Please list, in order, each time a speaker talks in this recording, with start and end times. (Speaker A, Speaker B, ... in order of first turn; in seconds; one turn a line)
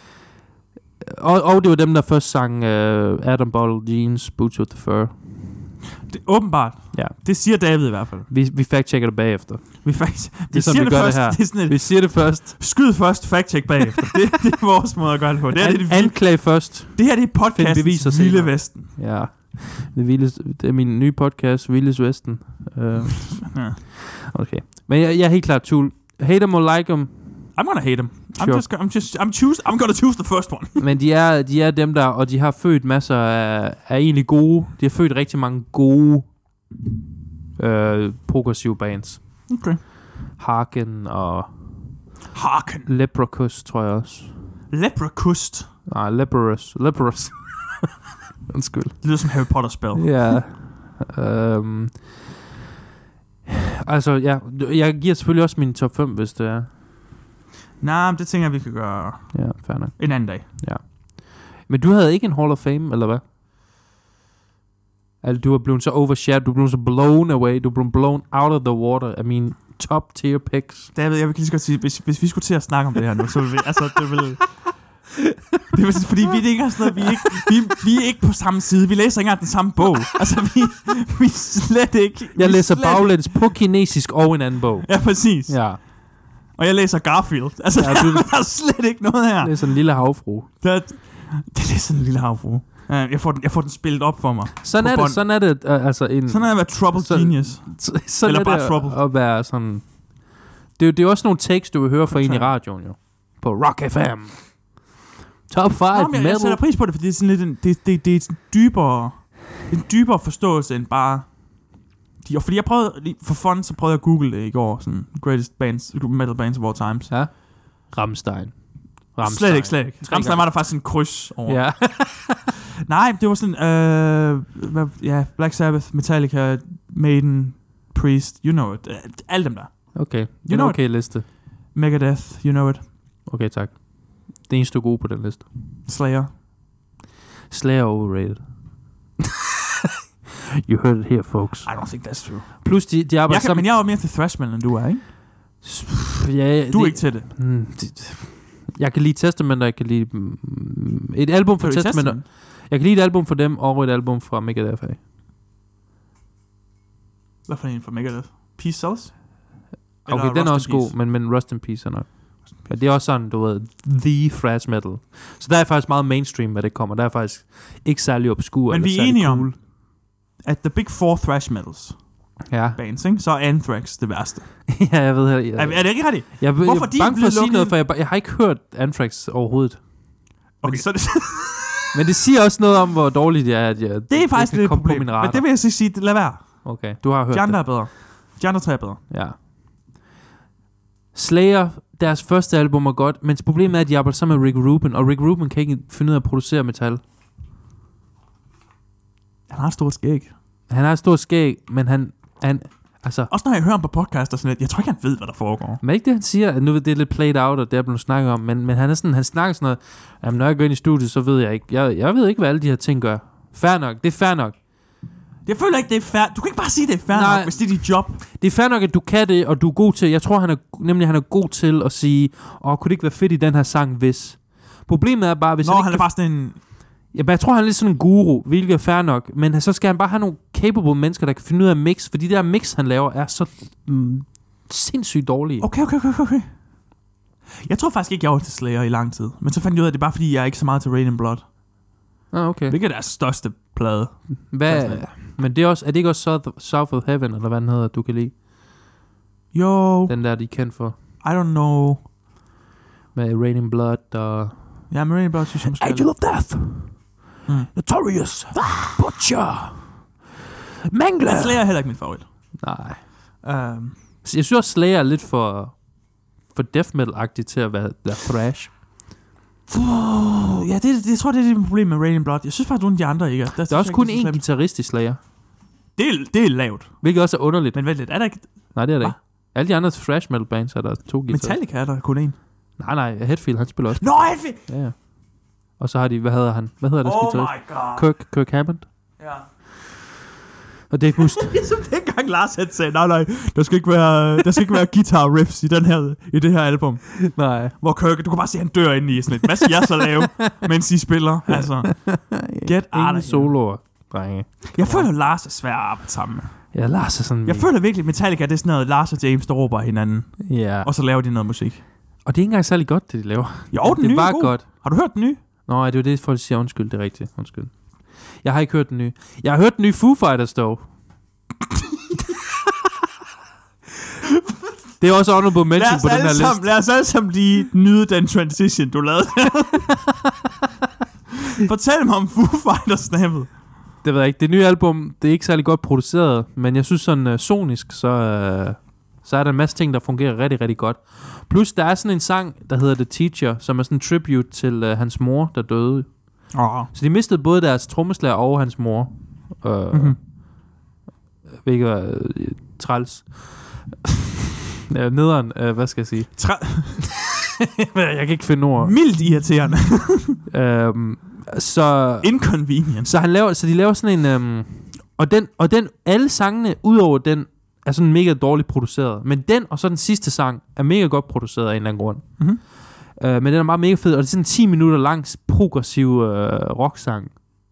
Speaker A: 1.0-5.7
Speaker B: 6.1-8.3
Speaker A: 6.9-12.6
Speaker B: 9.8-19.0
Speaker A: 15.6-27.6
Speaker B: 23.5-23.8
Speaker B: 27.6-30.8
Speaker A: 28.4-28.6
Speaker A: 30.8-36.3
Speaker A: 37.6-39.5
Speaker B: 39.5-39.8
Speaker A: 40.3-42.0
Speaker B: 42.3-42.9
Speaker A: 42.9-44.4
Speaker B: 44.7-45.7
Speaker A: 45.9-47.9
Speaker A: 48.5-52.3
Speaker B: 49.0-50.4
Speaker A: 53.5-56.7
Speaker B: 57.8-60.5
Speaker A: 59.3-63.2
Speaker A: 65.2-70.9
Speaker B: 71.0-74.8
Speaker B: 75.7-83.5
Speaker A: 82.4-85.8
Speaker B: 84.8-89.9
Speaker A: 87.8-88.3
Speaker A: 89.4-90.5
Speaker B: 90.6-95.3
Speaker A: 94.6-104.8
Speaker B: 96.3-99.0
Speaker B: 102.1-102.6
Speaker A: 105.5-106.6
Speaker B: 105.9-117.1
Speaker A: 117.1-120.9
Speaker B: 119.2-132.9
Speaker A: 121.5-122.4
Speaker A: 129.9-131.3
Speaker A: 133.2-135.5
Speaker B: 135.9-136.3
Speaker A: 137.5-138.4
Speaker A: 140.7-143.7
Speaker B: 141.7-145.1
Speaker A: 145.6-155.0
Speaker B: 146.7-147.3
Speaker B: 151.6-152.2
Speaker B: 157.5-159.5
Speaker B: 160.1-161.0
Speaker A: 160.1-169.6
Speaker B: 162.6-162.8
Speaker B: 168.7-169.7
Speaker B: 170.4-174.9
Speaker A: 172.5-172.8
Speaker A: 174.7-180.9
Speaker B: 175.6-177.8
Speaker B: 180.6-181.8
Speaker A: 181.9-185.5
Speaker B: 184.1-189.0
Speaker A: 186.6-187.8
Speaker A: 189.1-189.4
Speaker A: 191.1-197.0
Speaker B: 199.5-200.3
Speaker A: 200.7-203.3
Speaker B: 203.3-205.8
Speaker A: 205.8-214.6
Speaker B: 215.4-218.2
Speaker A: 217.1-235.7
Speaker B: 225.6-226.6
Speaker B: 235.6-236.7
Speaker B: 237.6-241.5
Speaker A: 242.3-242.8
Speaker B: 242.7-245.1
Speaker A: 244.4-248.3
Speaker B: 249.5-250.2
Speaker A: 250.1-251.0
Speaker B: 251.2-252.1
Speaker A: 253.1-254.9
Speaker B: 254.9-256.2
Speaker A: 255.7-257.2
Speaker B: 257.5-257.7
Speaker A: 257.7-260.1
Speaker A: 260.9-261.7
Speaker B: 261.2-262.3
Speaker A: 262.6-263.4
Speaker B: 263.4-264.0
Speaker A: 264.2-265.8
Speaker A: 266.5-268.8
Speaker B: 269.7-274.5
Speaker A: 273.7-275.2
Speaker B: 276.0-279.2
Speaker A: 277.0-281.6
Speaker B: 281.3-282.4
Speaker A: 282.8-288.9
Speaker B: 284.0-284.6
Speaker B: 287.0-288.1
Speaker B: 289.2-289.5
Speaker A: 290.9-291.5
Speaker B: 291.2-303.6
Speaker A: 297.2-297.7
Speaker A: 301.5-305.1
Speaker B: 304.7-311.8
Speaker A: 306.7-307.7
Speaker A: 310.5-310.9
Speaker A: 312.2-315.1
Speaker B: 313.7-315.4
Speaker A: 315.7-320.9
Speaker A: 325.0-326.7
Speaker B: 325.7-330.0
Speaker B: 331.6-333.5
Speaker A: 334.0-350.3
Speaker B: 346.5-346.9
Speaker B: 349.9-350.2
Speaker A: 351.6-354.0
Speaker A: 354.9-357.0
Speaker B: 356.4-357.1
Speaker A: 357.6-359.0
Speaker B: 358.8-360.4
Speaker A: 360.5-377.4
Speaker B: 362.2-363.1